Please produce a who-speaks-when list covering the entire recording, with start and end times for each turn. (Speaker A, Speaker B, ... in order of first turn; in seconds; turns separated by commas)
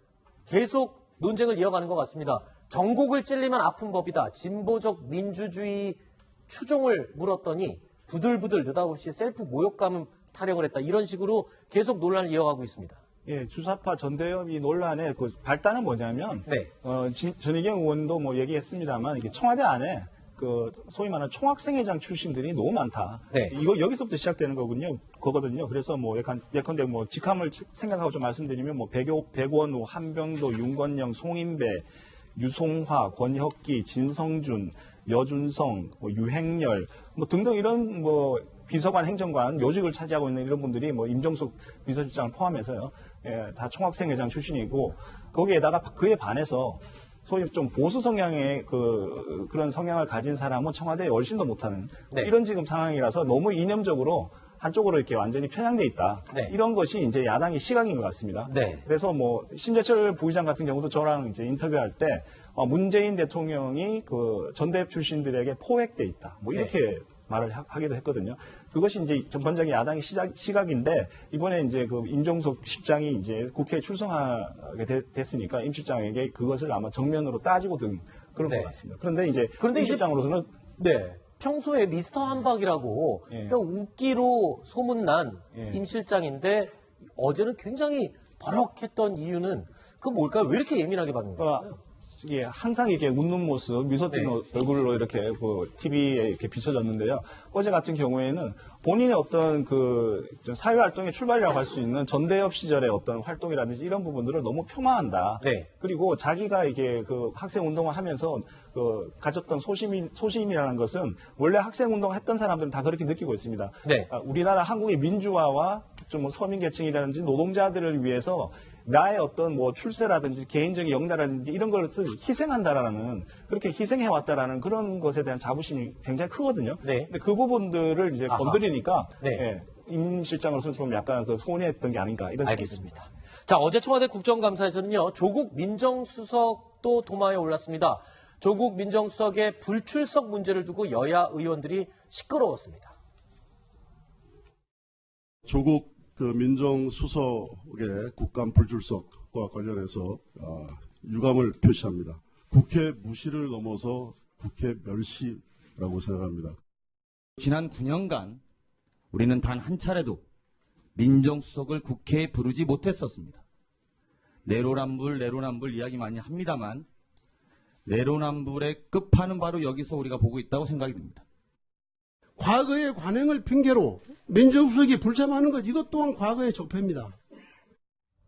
Speaker A: 0.5-13.0, Speaker B: 13.2-80.5, Speaker A: 16.4-16.7, Speaker A: 58.5-58.8, Speaker A: 78.4-78.7, Speaker A: 79.6-80.0, Speaker A: 80.8-91.8, Speaker B: 83.3-83.6, Speaker B: 85.5-85.8, Speaker B: 91.4-132.9, Speaker A: 105.4-105.7, Speaker A: 126.8-127.1, Speaker A: 128.3-128.6, Speaker A: 132.4-142.9, Speaker C: 145.4-156.6, Speaker D: 157.4-158.4, Speaker D: 159.1-160.2, Speaker D: 160.9-163.4, Speaker D: 164.4-166.8, Speaker D: 167.8-171.2, Speaker E: 172.4-177.2